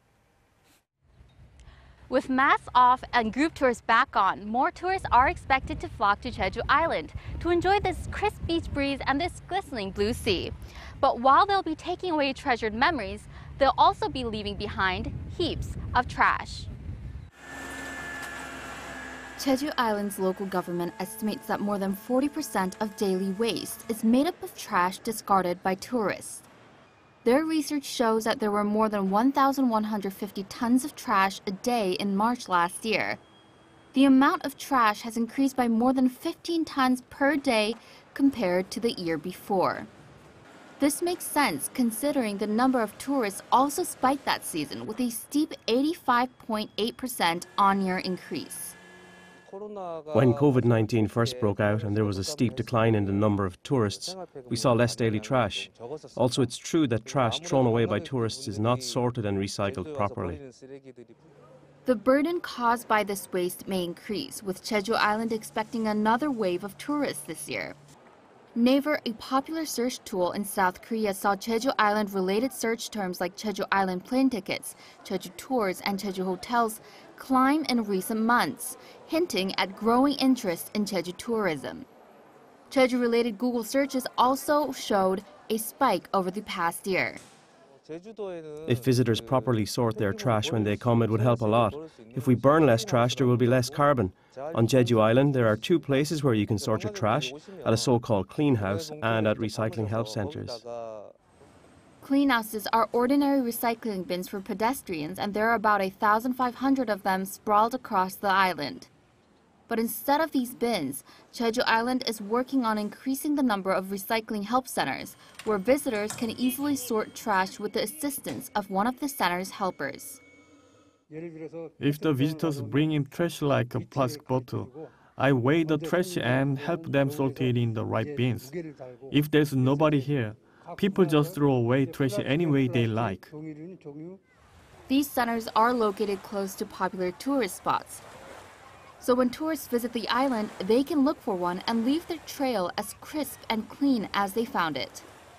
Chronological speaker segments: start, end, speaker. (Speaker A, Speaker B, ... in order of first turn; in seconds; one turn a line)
Speaker A: 2.1-16.7
Speaker A: 19.4-26.5
Speaker A: 27.2-33.2
Speaker A: 33.9-39.9
Speaker A: 40.8-48.8
Speaker B: 50.1-60.4
Speaker A: 61.8-67.8
Speaker A: 68.5-81.9
Speaker A: 82.7-87.2
Speaker B: 88.6-100.6
Speaker A: 102.0-108.9
Speaker A: 109.7-120.2
Speaker C: 121.8-128.5
Speaker C: 129.1-133.3
Speaker A: 134.9-138.0
Speaker A: 139.0-145.1